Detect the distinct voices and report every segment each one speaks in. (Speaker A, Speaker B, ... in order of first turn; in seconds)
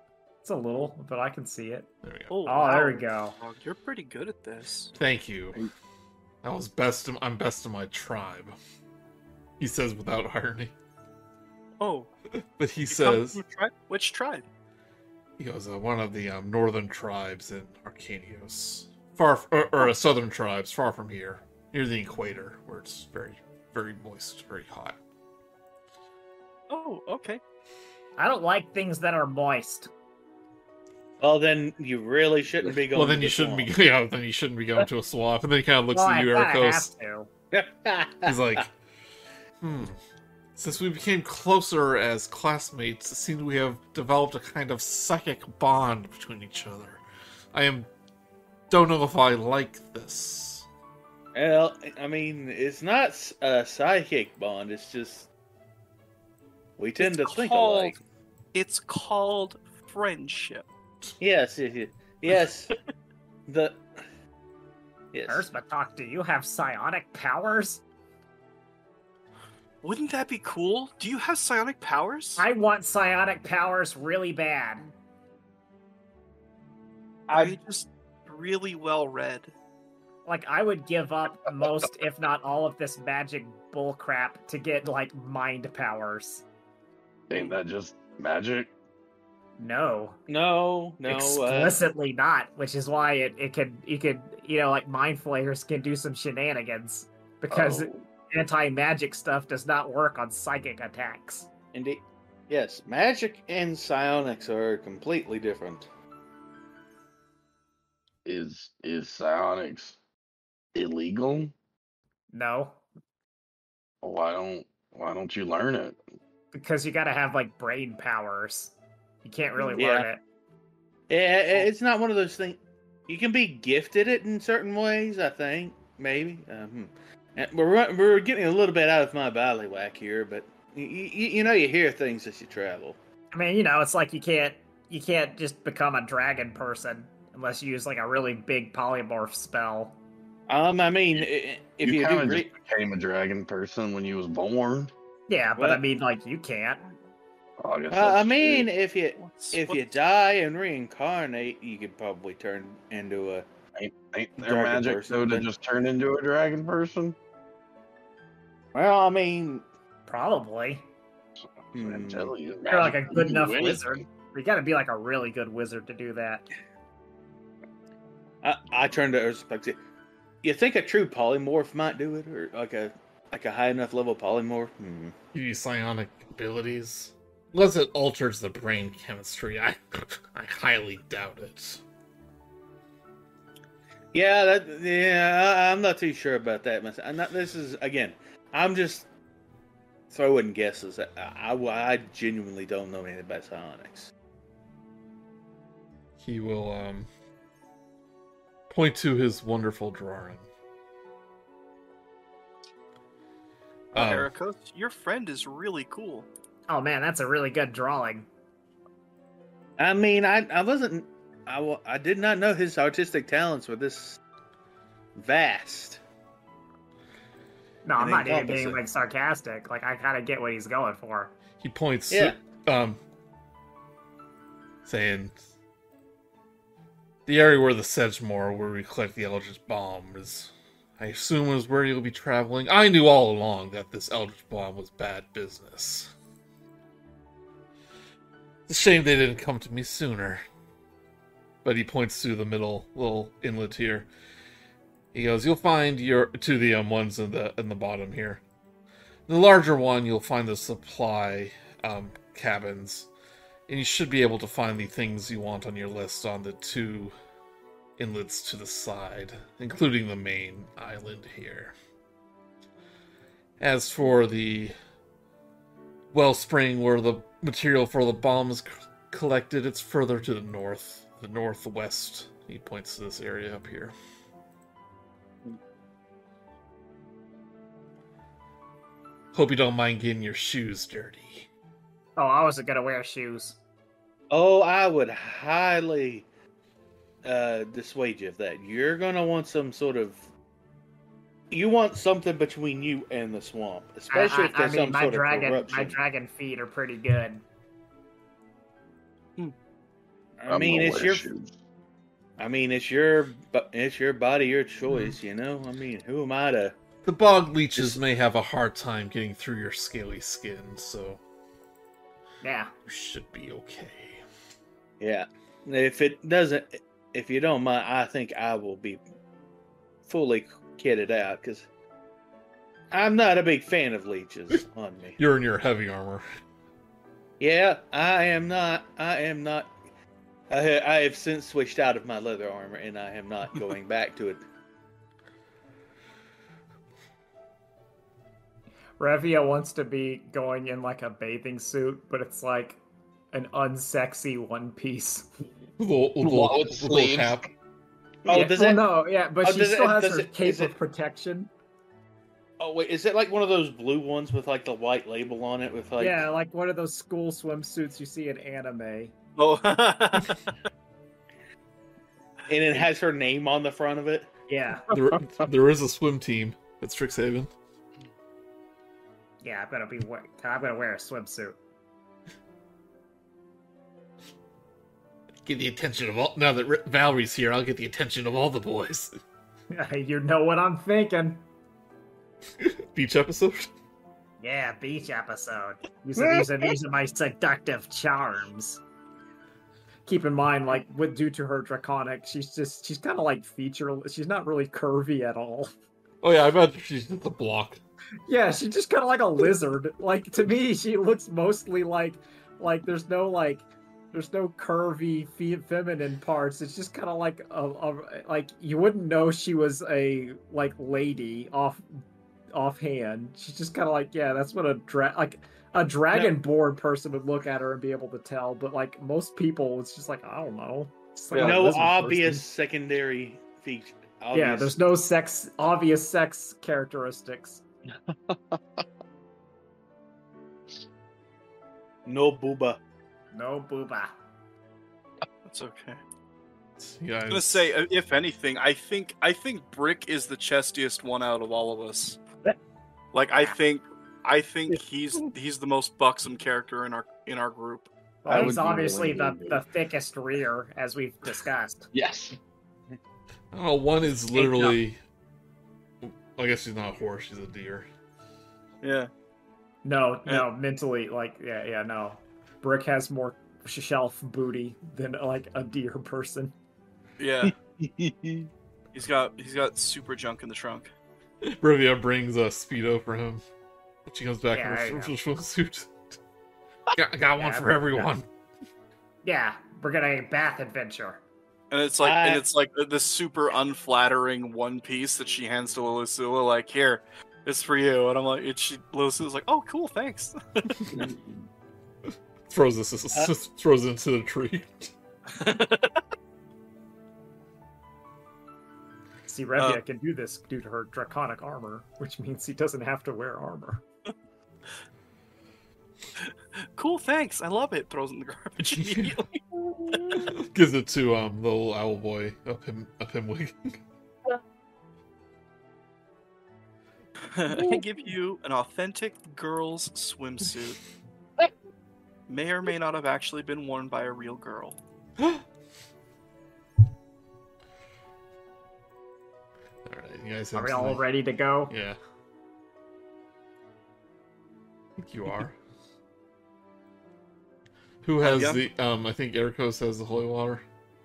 Speaker A: 0.4-1.9, 2.4-3.4, 28.2-29.9, 35.9-37.3, 65.3-67.8, 72.4-74.9, 80.2-86.4, 89.6-90.2, 91.0-101.5, 112.3-112.8, 116.5-120.2, 133.3-140.0, 145.3-146.8, 160.1-160.8, 162.7-166.5, 206.7-208.3, 217.8-221.3, 282.2-283.6, 294.1-297.4, 312.4-312.7, 339.0-342.8, 343.3-345.3, 348.3-351.5, 356.0-359.1, 364.5-364.9, 369.4-371.6, 379.7-381.4, 384.4-388.8, 390.1-395.7, 398.3-411.9, 412.5-422.4, 424.3-427.6, 433.3-434.1, 448.2-451.9, 454.4-454.7, 459.8-466.5, 474.5-475.1, 477.4-478.1, 479.2-481.2, 499.3-503.8, 530.5-531.7
Speaker B: 2.0-2.3, 5.0-5.6, 6.4-8.6, 9.6-10.7, 12.6-13.4, 15.4-25.0, 32.9-36.9, 38.2-38.7, 39.6-40.0, 40.5-47.0, 47.5-47.9, 48.7-50.7, 175.3-181.8, 196.2-197.1, 198.7-200.5, 203.9-204.3, 221.6-223.0, 224.8-225.3, 227.2-236.1, 238.7-240.4, 241.6-244.1, 245.1-248.4, 249.3-253.1, 253.7-257.1, 258.0-261.8, 263.6-264.8, 266.1-273.9, 279.3-281.5, 307.0-311.2, 312.9-314.2, 325.2-326.2, 345.8-347.5, 364.9-367.5, 375.4-379.1, 382.6-383.7, 396.2-397.8, 436.8-437.7, 453.5-455.0, 456.0-457.9, 471.5-473.4, 474.1-476.2, 476.9-478.3, 492.5-494.9, 508.6-509.2, 510.1-513.8, 529.8-531.0, 531.7-532.0, 535.0-535.5, 538.0-540.6
Speaker C: 2.3-4.9, 11.8-12.1, 12.9-14.4, 26.7-27.4, 57.0-58.0, 58.5-60.6, 69.8-72.4, 77.3-79.5, 149.2-149.8, 203.9-206.3, 359.4-360.4, 421.3-421.6, 435.4-436.0, 437.3-442.2, 443.1-447.9, 458.8-459.1, 467.2-467.5, 468.9-470.9, 481.7-490.8, 495.3-496.0, 506.2-510.2, 517.3-520.8, 522.3-524.8, 538.2-538.6
Speaker D: 31.2-33.7, 37.5-38.4, 51.4-55.3, 56.8-58.0, 61.2-62.7, 63.5-63.8, 65.1-65.5, 77.3-77.5, 90.3-91.8, 101.7-105.9, 119.7-120.1, 121.1-133.0, 140.5-142.5, 145.6-145.8, 147.9-153.5, 154.4-155.5, 158.7-159.6, 161.7-162.3, 168.4-169.8, 170.4-175.1, 184.1-189.1, 190.1-194.1, 209.8-214.2, 215.2-216.0, 218.0-218.8, 222.1-222.4, 284.3-286.3, 287.2-290.2, 291.5-296.0, 300.4-301.3, 302.4-306.8, 315.0-319.0, 320.1-321.7, 322.9-325.2, 327.4-329.7, 330.5-334.4, 348.2-348.9, 349.4-350.7, 352.6-356.2, 362.5-364.3, 421.3-424.8, 432.1-432.8, 467.4-468.5, 482.0-482.4
Speaker E: 87.3-88.7, 97.5-98.0, 108.2-110.0, 110.8-111.5, 114.0-116.0, 141.8-144.9, 147.6-148.7, 153.8-157.2, 161.7-164.0, 300.5-301.5, 346.2-347.4, 428.1-428.8, 448.2-449.6, 451.9-452.4